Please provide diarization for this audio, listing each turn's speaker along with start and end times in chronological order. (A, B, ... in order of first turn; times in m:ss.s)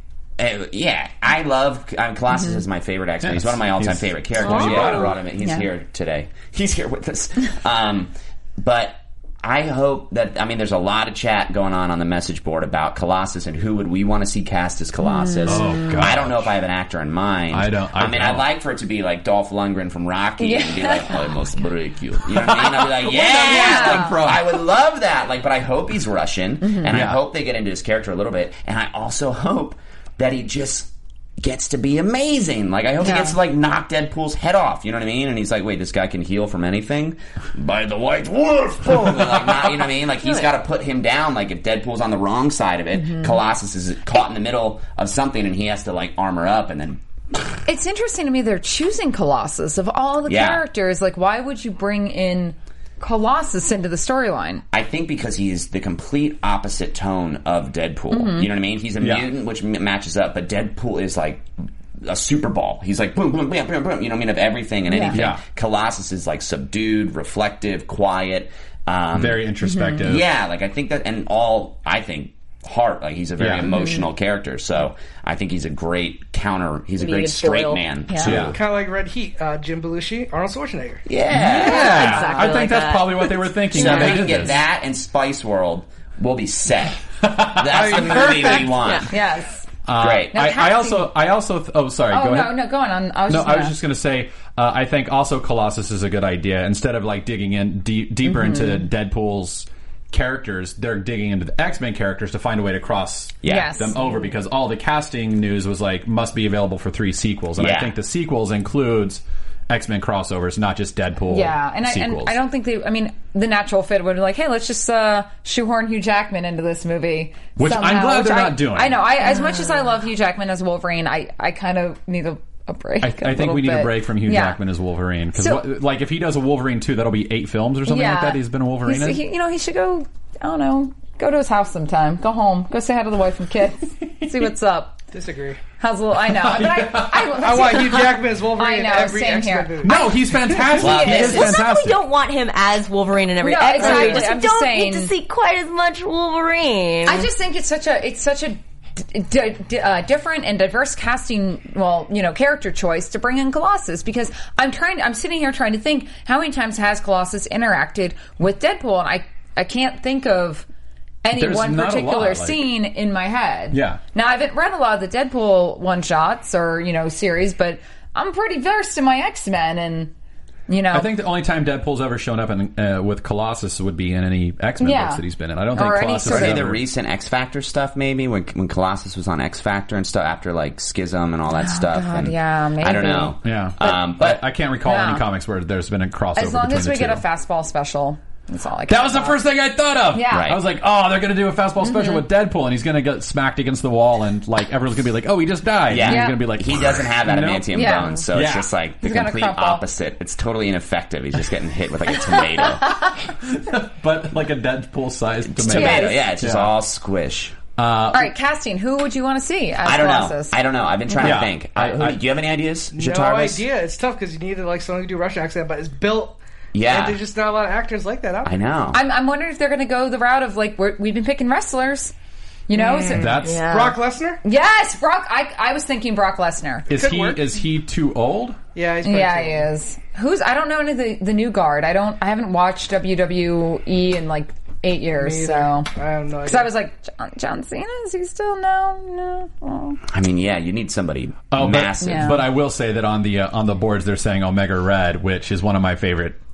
0:00.4-0:47.0 A
0:02.3-0:02.6 B
0:03.2-0:05.1 C
0:04.4-0:05.2 D
0:05.4-0:05.7 B
0:15.0-0:16.0 B
0:15.5-0:16.5 C
0:17.5-0:18.5 C
0:20.4-0:21.2 B
0:22.3-0:24.6 C
0:23.4-0:24.2 B
0:26.6-0:26.9 B
0:26.9-0:27.2 C
0:33.0-0:33.4 B
0:39.2-0:39.8 C
0:43.0-0:43.4 B
0:47.7-0:54.6 B
0:50.3-0:50.6 A
0:54.7-1:01.5 A
0:58.1-0:58.5 B
0:59.0-0:59.3 C
1:02.0-1:09.4 A
1:04.9-1:05.2 B
1:05.1-1:05.4 C
1:09.1-1:10.3 C
1:09.6-1:10.1 B
1:10.0-1:18.6 A
1:13.4-1:13.7 C
1:13.7-1:14.1 B
1:17.0-1:17.8 D
1:18.1-1:18.4 B
1:18.2-1:18.6 C
1:18.5-1:21.0 E
1:21.1-1:22.0 A
1:21.3-1:24.6 C
1:21.3-1:22.6 B
1:21.5-1:23.5 D
1:23.7-1:29.1 A
1:23.8-1:24.2 B
1:27.2-1:28.9 C
1:28.6-1:29.1 D
1:28.6-1:29.7 B
1:29.8-1:32.6 C
1:30.0-1:30.4 A
1:30.3-1:31.1 B
1:32.1-1:33.8 B
1:33.3-1:52.4 C
1:38.2-1:38.9 B
1:43.4-1:43.8 A
1:43.5-1:44.3 B
1:47.6-1:47.9 A
1:51.3-2:04.6 B
1:57.6-1:59.1 C
2:03.0-2:09.2 C
2:05.4-2:05.6 B
2:07.9-2:15.0 B
2:15.1-2:15.6 E
2:15.8-2:21.5 B
2:16.2-2:17.8 C
2:17.3-2:20.7 E
2:19.8-2:22.0 C
2:20.8-2:21.6 A
2:21.0-2:27.3 D
2:23.4-2:25.1 B
2:23.8-2:24.3 E
2:27.1-2:40.7 B
2:41.2-2:50.1 B
2:41.3-2:42.7 C
2:43.7-2:44.0 C
2:50.7-2:51.1 B
2:50.9-2:56.8 C
2:54.8-2:55.2 B
2:55.7-2:56.7 B
2:56.3-3:04.4 A
3:01.5-3:04.0 B
3:03.0-3:07.2 C
3:04.8-3:05.3 B
3:06.4-3:09.4 B
3:08.9-3:18.7 C
3:10.1-3:10.6 B
3:10.3-3:10.6 A
3:11.8-3:12.2 B
3:15.9-3:23.0 A
3:16.1-3:16.4 B
3:17.7-3:18.3 B
3:19.0-3:19.8 B
3:23.3-3:26.7 C
3:25.5-3:27.6 A
3:25.7-3:26.2 B
3:27.8-3:28.3 C
3:28.1-3:30.6 B
3:29.8-3:33.6 A
3:31.2-3:32.2 C
3:32.9-3:38.5 E
3:36.7-3:37.2 A
3:38.4-3:39.0 A
3:38.9-3:42.1 B
3:42.7-3:43.3 B
3:42.7-3:44.4 E
3:43.1-3:43.7 C
3:43.4-3:44.0 D
3:44.4-3:46.9 B
3:46.9-3:48.6 C
3:46.9-3:47.5 E
3:48.8-3:49.7 E
3:49.0-3:55.9 B
3:55.1-3:56.7 E
3:56.5-4:00.0 B
4:00.1-4:02.4 A
4:01.5-4:06.4 C
4:02.0-4:02.5 B